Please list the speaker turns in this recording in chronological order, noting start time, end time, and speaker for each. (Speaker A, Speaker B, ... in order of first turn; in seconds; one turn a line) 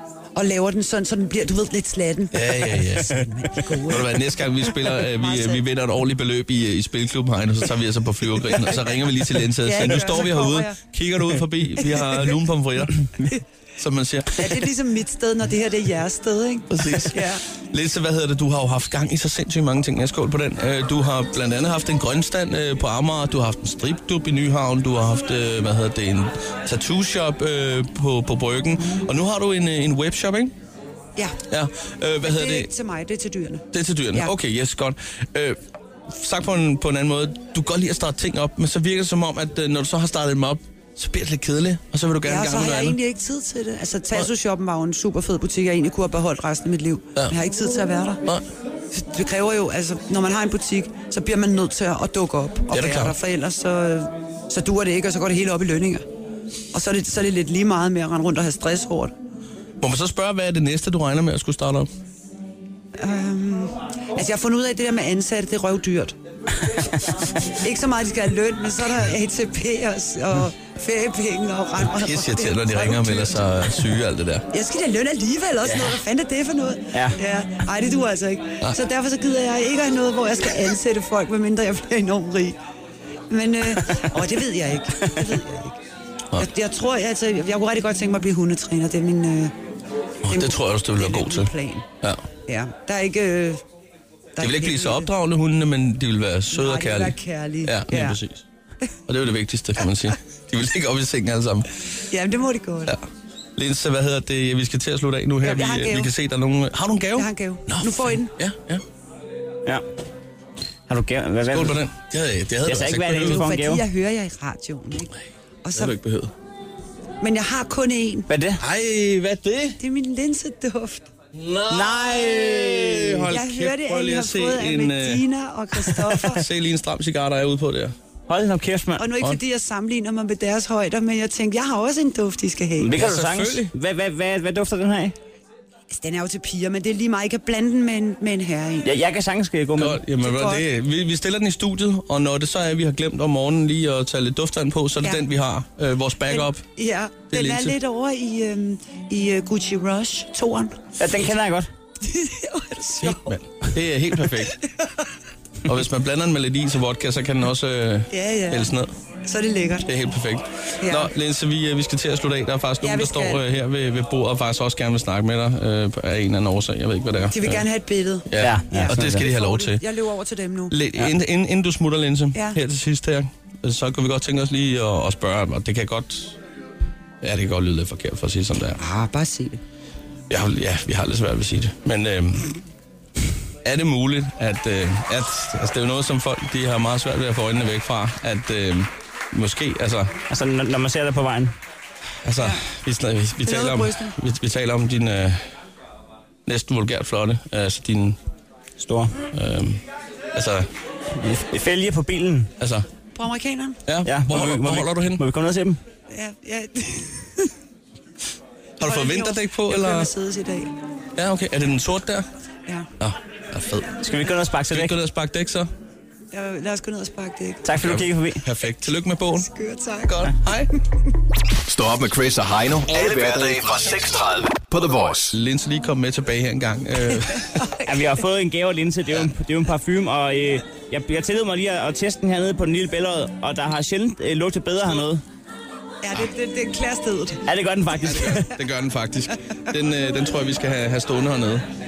Speaker A: 0.3-4.2
Speaker B: 2.3-13.0
Speaker A: 4.9-5.6
Speaker A: 9.6-10.8
Speaker A: 11.8-12.4
Speaker B: 13.8-14.6
Speaker A: 14.3-17.4
Speaker B: 16.7-30.5
Speaker B: 31.5-32.7
Speaker A: 32.2-34.3
Speaker B: 33.7-35.6
Speaker B: 36.1-43.0
Speaker A: 42.2-48.2
Speaker A: 48.9-56.0
Speaker B: 52.7-53.2
Speaker A: 56.7-59.1
Speaker B: 59.8-61.9
Speaker A: 63.0-66.1
Speaker A: 67.4-73.5
Speaker B: 71.8-74.5
Speaker A: 74.5-82.6
Speaker C: 75.7-76.0
Speaker A: 83.3-85.8
Speaker C: 83.8-84.0
Speaker A: 86.4-89.5
Speaker B: 90.2-92.2
Speaker A: 90.3-91.9
Speaker A: 92.5-93.6
Speaker A: 94.4-95.1
Speaker B: 94.4-98.4
Speaker A: 96.5-98.2
Speaker B: 99.1-101.7
Speaker A: 102.1-103.0
Speaker B: 103.6-108.8
Speaker A: 105.4-106.1
Speaker A: 107.2-108.3
Speaker C: 110.9-111.8
Speaker B: 111.5-113.4
Speaker C: 112.7-113.8
Speaker A: 113.2-116.0
Speaker B: 115.7-116.3
Speaker A: 117.2-118.3
Speaker C: 118.3-118.6
Speaker B: 118.6-119.8
Speaker A: 119.8-121.1
Speaker B: 121.3-125.2
Speaker C: 121.7-123.3
Speaker A: 123.3-126.5
Speaker B: 125.7-127.9
Speaker C: 128.3-129.1
Speaker A: 129.0-133.0
Speaker C: 132.8-135.2
Speaker B: 132.9-133.7
Speaker A: 135.9-138.9
Speaker C: 138.8-140.0
Speaker B: 139.8-146.6
Speaker A: 140.2-140.7
Speaker A: 146.3-150.9
Speaker B: 147.3-147.8
Speaker C: 151.0-151.7
Speaker A: 152.0-153.3
Speaker B: 153.0-154.6
Speaker A: 154.5-154.9
Speaker B: 155.6-158.9
Speaker A: 158.1-158.7
Speaker A: 159.2-159.9
Speaker B: 159.9-167.7
Speaker A: 160.8-161.1
Speaker A: 162.8-163.4
Speaker A: 167.3-170.8
Speaker B: 168.3-169.8
Speaker C: 168.4-169.3
Speaker B: 170.7-176.4
Speaker A: 172.3-172.6
Speaker B: 177.2-178.8
Speaker A: 178.8-179.6
Speaker B: 180.3-182.6
Speaker B: 183.6-190.1
Speaker C: 190.3-191.6
Speaker B: 192.2-195.4
Speaker A: 193.4-194.2
Speaker B: 196.5-198.2
Speaker C: 198.8-199.2
Speaker B: 199.3-199.8
Speaker B: 200.3-200.7
Speaker C: 201.2-202.5
Speaker B: 202.6-202.9
Speaker A: 203.2-203.8
Speaker B: 203.9-205.2
Speaker C: 204.0-205.8
Speaker A: 206.1-207.5
Speaker B: 208.8-210.1
Speaker A: 208.8-210.7
Speaker B: 211.2-212.3
Speaker B: 213.0-214.1
Speaker C: 214.0-215.0
Speaker B: 214.7-215.7
Speaker A: 216.3-217.7
Speaker C: 217.6-218.4
Speaker B: 217.8-219.5
Speaker A: 219.3-220.3
Speaker B: 220.1-220.7
Speaker D: 221.6-225.3
Speaker B: 225.3-227.6
Speaker A: 227.2-228.2
Speaker C: 227.8-235.2
Speaker A: 236.0-237.4
Speaker C: 237.5-238.5
Speaker B: 238.0-241.6